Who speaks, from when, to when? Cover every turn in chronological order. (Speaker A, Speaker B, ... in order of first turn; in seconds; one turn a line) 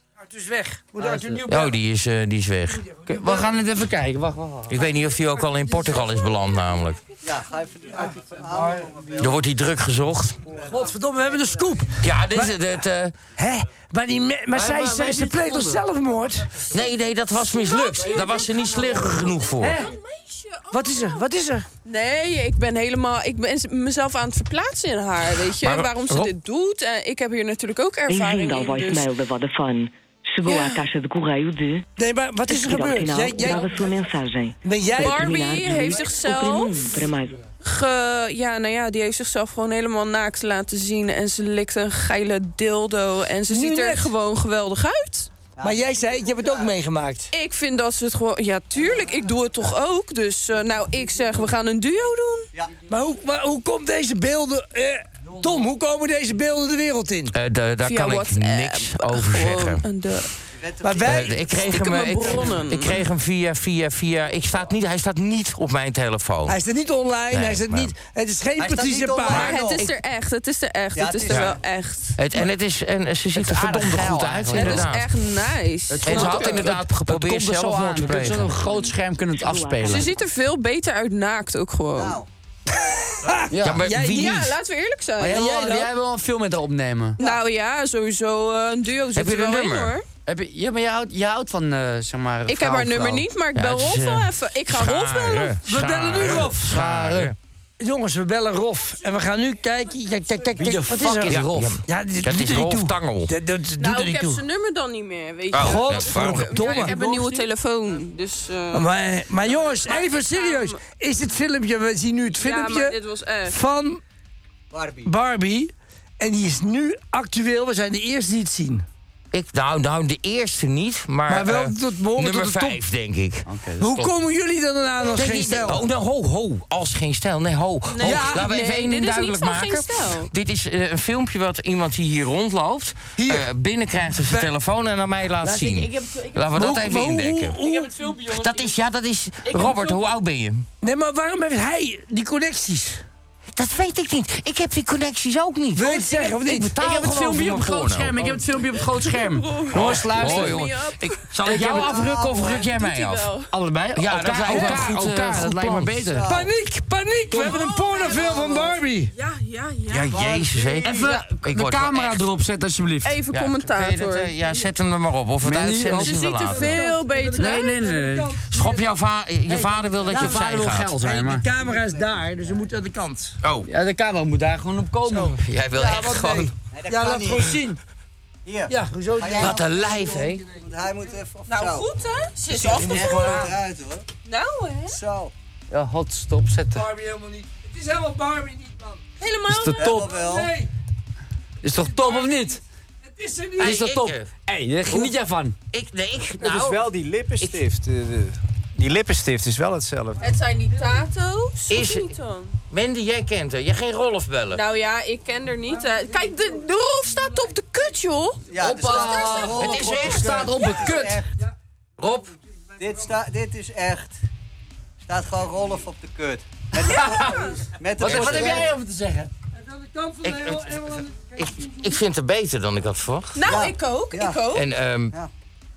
Speaker A: 0.2-1.7
Speaker B: 1.0-1.4
Speaker C: 1.5-2.8
Speaker A: 2.8-3.5
Speaker B: 3.1-4.8
Speaker C: 4.7-7.0
Speaker D: 7.2-9.4
Speaker A: 8.5-8.9
Speaker C: 9.2-10.4
Speaker D: 10.5-11.7
Speaker A: 10.6-12.5
Speaker C: 12.0-13.1
Speaker A: 13.4-16.5
Speaker B: 14.5-15.8
Speaker C: 16.7-19.8
Speaker E: 17.5-21.2
Speaker A: 19.6-19.9
Speaker A: 20.7-21.6
Speaker E: 21.8-29.1
Speaker C: 25.6-26.3
Speaker F: 28.1-31.8
Speaker E: 30.5-30.8
Speaker A: 32.0-33.8
Speaker F: 32.5-37.4
Speaker A: 34.6-35.5
Speaker E: 34.9-36.9
Speaker E: 37.6-45.3
Speaker A: 43.5-44.1
Speaker D: 45.5-46.7
Speaker A: 45.6-47.3
Speaker E: 47.3-52.5
Speaker A: 52.9-57.3
Speaker C: 57.3-59.8
Speaker E: 57.8-60.3
Speaker D: 60.5-61.5
Speaker A: 60.8-61.4
Speaker C: 61.0-66.6
Speaker E: 61.5-63.0
Speaker D: 62.2-62.5
Speaker A: 66.5-69.6
Speaker C: 67.3-67.9
Speaker D: 68.6-69.9
Speaker E: 69.3-72.2
Speaker D: 70.9-71.6
Speaker C: 71.3-71.6
Speaker C: 72.2-75.1
Speaker B: 73.3-74.9
Speaker E: 74.5-76.8
Speaker B: 75.9-80.1
Speaker C: 76.0-78.5
Speaker F: 78.6-80.1
Speaker E: 79.8-82.2
Speaker D: 82.0-82.2
Speaker A: 82.8-84.4
Speaker B: 83.5-83.9
Speaker C: 83.6-84.5
Speaker E: 84.0-85.8
Speaker B: 85.2-87.2
Speaker E: 87.2-90.0
Speaker C: 89.1-89.9
Speaker B: 90.2-93.3
Speaker E: 92.5-95.6
Speaker C: 93.5-97.3
Speaker A: 95.7-96.7
Speaker B: 96.2-97.3
Speaker A: 97.8-104.4
Speaker B: 100.5-101.8
Speaker C: 101.3-103.3
Speaker E: 103.8-108.9
Speaker C: 105.5-106.9
Speaker A: 105.6-107.4
Speaker A: 108.7-113.0
Speaker E: 109.7-110.8
Speaker E: 112.4-113.6
Speaker A: 113.5-114.0
Speaker D: 114.7-115.1
Speaker A: 115.0-118.8
Speaker C: 119.3-124.1
Speaker A: 121.3-122.8
Speaker B: 123.5-124.0
Speaker A: 123.8-125.8
Speaker C: 125.1-137.6
Speaker E: 127.9-130.3
Speaker A: 128.0-128.4
Speaker A: 133.2-133.5
Speaker A: 134.2-134.5
Speaker B: 135.4-136.4
Speaker A: 136.5-138.1
Speaker B: 137.6-138.7
Speaker C: 138.3-140.7
Speaker B: 139.5-140.0
Speaker A: 140.8-143.0
Speaker C: 143.5-148.2
Speaker A: 145.7-146.8
Speaker B: 146.8-150.7
Speaker E: 148.9-153.5
Speaker C: 149.7-153.3
Speaker B: 151.3-152.0
Speaker D: 152.0-152.3
Speaker B: 153.5-156.3
Speaker C: 153.9-156.1
Speaker A: 154.5-154.8
Speaker D: 156.1-156.5
Speaker A: 156.2-159.1
Speaker B: 157.3-157.5
Speaker E: 157.4-158.6
Speaker D: 158.1-158.6
Speaker E: 159.1-160.1
Speaker C: 159.9-162.2
Speaker D: 160.1-161.2
Speaker B: 160.8-163.2
Speaker E: 163.0-164.7
Speaker C: 163.3-166.8
Speaker B: 165.4-166.1
Speaker E: 166.0-167.9
Speaker A: 166.5-168.8
Speaker B: 167.3-168.4
Speaker C: 168.5-171.0
Speaker B: 169.5-171.5
Speaker A: 171.0-173.3
Speaker D: 171.6-172.6
Speaker C: 173.4-173.7
Speaker B: 173.7-175.3
Speaker A: 175.1-177.8
Speaker C: 175.3-176.5
Speaker D: 176.7-177.6
Speaker D: 178.4-181.8
Speaker A: 178.7-180.6
Speaker C: 179.4-180.4
Speaker E: 181.5-183.5
Speaker D: 182.5-184.1
Speaker E: 184.2-185.0
Speaker D: 184.9-185.3
Speaker B: 185.7-186.8
Speaker A: 186.7-189.0
Speaker E: 189.2-190.0
Speaker G: 189.5-189.8
Speaker D: 189.8-190.5
Speaker B: 189.8-190.1
Speaker A: 190.0-190.7
Speaker B: 191.6-192.6
Speaker A: 191.9-192.5
Speaker A: 193.1-193.8
Speaker B: 193.6-195.5
Speaker C: 193.6-194.3
Speaker C: 195.7-197.6
Speaker G: 196.4-200.3
Speaker E: 200.2-202.6
Speaker C: 201.7-202.1
Speaker C: 202.7-204.6
Speaker E: 204.5-209.6
Speaker D: 208.5-211.2
Speaker B: 208.6-211.2
Speaker C: 209.4-210.7
Speaker C: 212.0-212.3
Speaker D: 212.8-214.2
Speaker D: 215.0-218.7
Speaker E: 216.8-217.7
Speaker B: 218.0-219.3
Speaker C: 218.0-218.6
Speaker A: 219.6-222.0
Speaker C: 220.2-223.4
Speaker E: 223.3-224.6
Speaker D: 223.4-224.4
Speaker C: 224.5-225.1